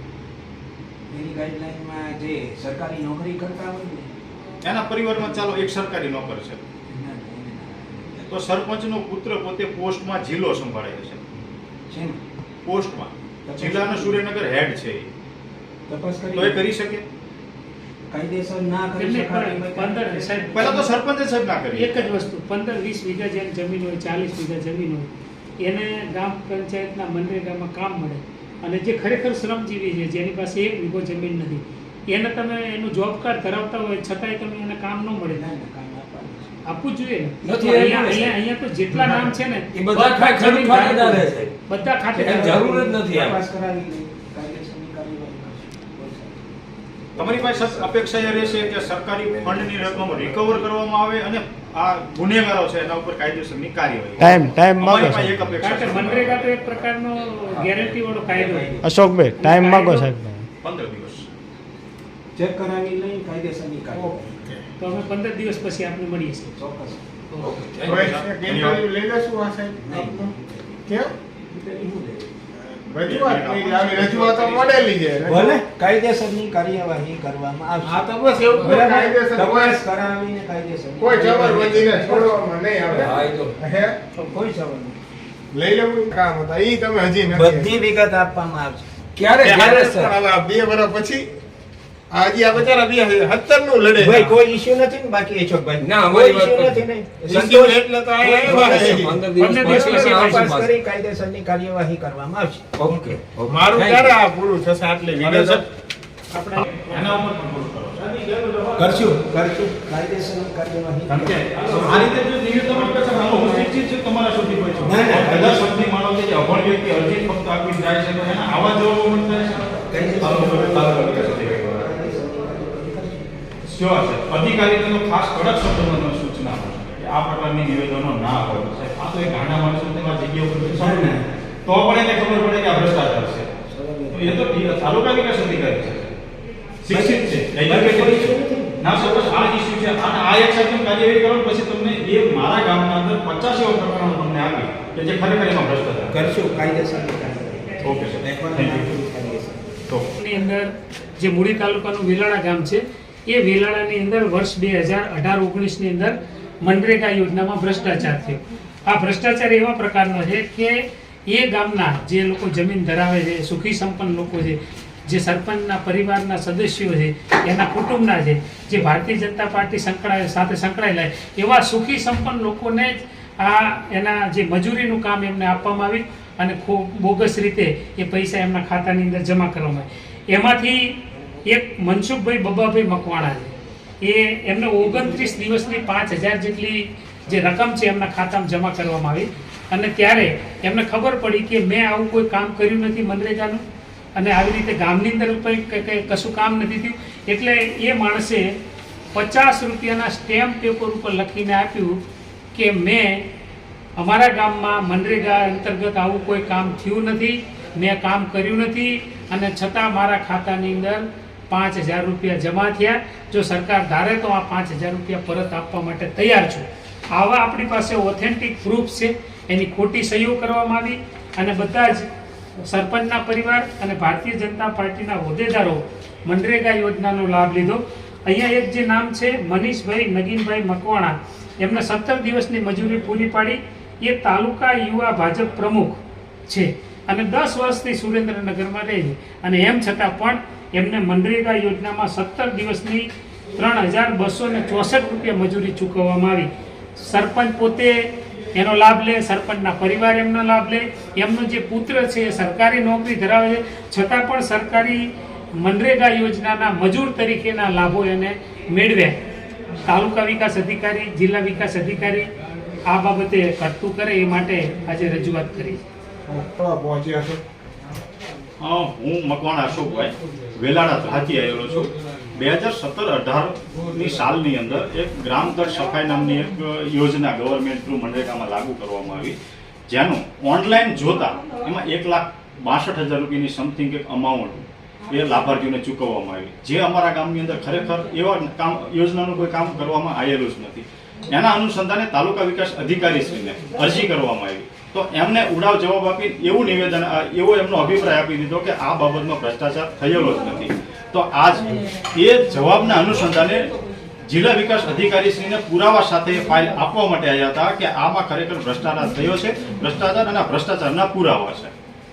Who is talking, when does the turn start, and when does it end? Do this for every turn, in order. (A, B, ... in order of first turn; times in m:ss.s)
0:01.1-0:04.2 A
0:04.6-0:06.6 B
0:06.9-0:08.4 A
0:08.3-0:11.3 B
0:11.9-0:12.2 A
0:12.6-0:15.1 B
0:13.5-0:14.2 A
0:15.9-0:16.7 A
0:16.3-0:17.0 B
0:18.1-0:20.8 A
0:19.0-0:20.9 C
0:20.6-0:22.1 B
0:21.7-0:25.1 C
0:25.6-0:35.4 C
0:35.3-0:36.6 A
0:36.6-0:42.4 C
0:37.4-0:38.4 D
0:39.7-0:41.6 D
0:42.1-0:43.4 D
0:42.1-0:46.6 A
0:47.2-0:50.7 A
0:47.2-0:56.5 B
0:54.2-0:55.2 E
0:54.8-0:56.1 A
0:55.6-0:58.8 C
0:57.5-0:58.0 D
0:58.3-0:58.9 A
0:58.8-1:00.4 E
0:59.4-1:00.1 C
1:00.6-1:01.3 B
1:02.4-1:04.4 A
1:03.9-1:04.6 E
1:04.8-1:06.5 C
1:06.6-1:07.1 A
1:07.4-1:08.1 D
1:07.8-1:10.3 E
1:07.9-1:08.8 B
1:09.8-1:10.8 A
1:10.9-1:11.1 E
1:11.5-1:12.3 A
1:12.6-1:15.6 E
1:13.0-1:14.9 B
1:15.2-1:23.2 A
1:17.8-1:19.8 E
1:21.0-1:24.0 E
1:22.9-1:23.6 D
1:24.1-1:25.0 A
1:25.5-1:27.8 E
1:27.3-1:28.9 A
1:29.2-1:30.2 D
1:29.4-1:31.3 E
1:32.1-1:34.4 E
1:34.0-1:37.8 A
1:35.8-1:36.8 D
1:37.2-1:39.2 E
1:38.2-1:40.7 D
1:38.5-1:39.0 A
1:39.4-1:40.4 C
1:39.6-1:42.8 A
1:42.8-1:44.2 D
1:43.5-1:45.6 E
1:45.2-1:45.6 B
1:46.3-1:47.2 E
1:46.6-1:49.1 B
1:48.8-1:52.2 A
1:51.1-2:01.9 B
1:54.8-1:55.7 A
1:59.9-2:03.3 A
2:03.7-2:13.5 B
2:10.7-2:11.3 A
2:13.6-2:14.4 A
2:14.1-2:16.2 B
2:16.8-2:26.2 B
2:16.9-2:19.0 A
2:26.1-2:29.8 A
2:27.8-2:29.0 B
2:30.2-3:01.0 C
3:01.5-3:13.6 C
3:04.9-3:05.3 A
3:14.2-3:18.6 C
3:19.1-3:22.0 C
3:22.5-3:23.3 C
3:24.0-3:42.1 C
3:42.6-4:15.0 C
4:15.6-4:19.2 C
4:19.9-4:22.3 C
4:22.9-4:25.8 C
4:26.3-4:27.4 E
4:28.6-4:39.4 B
4:39.9-5:03.7 B
5:04.2-5:11.7 B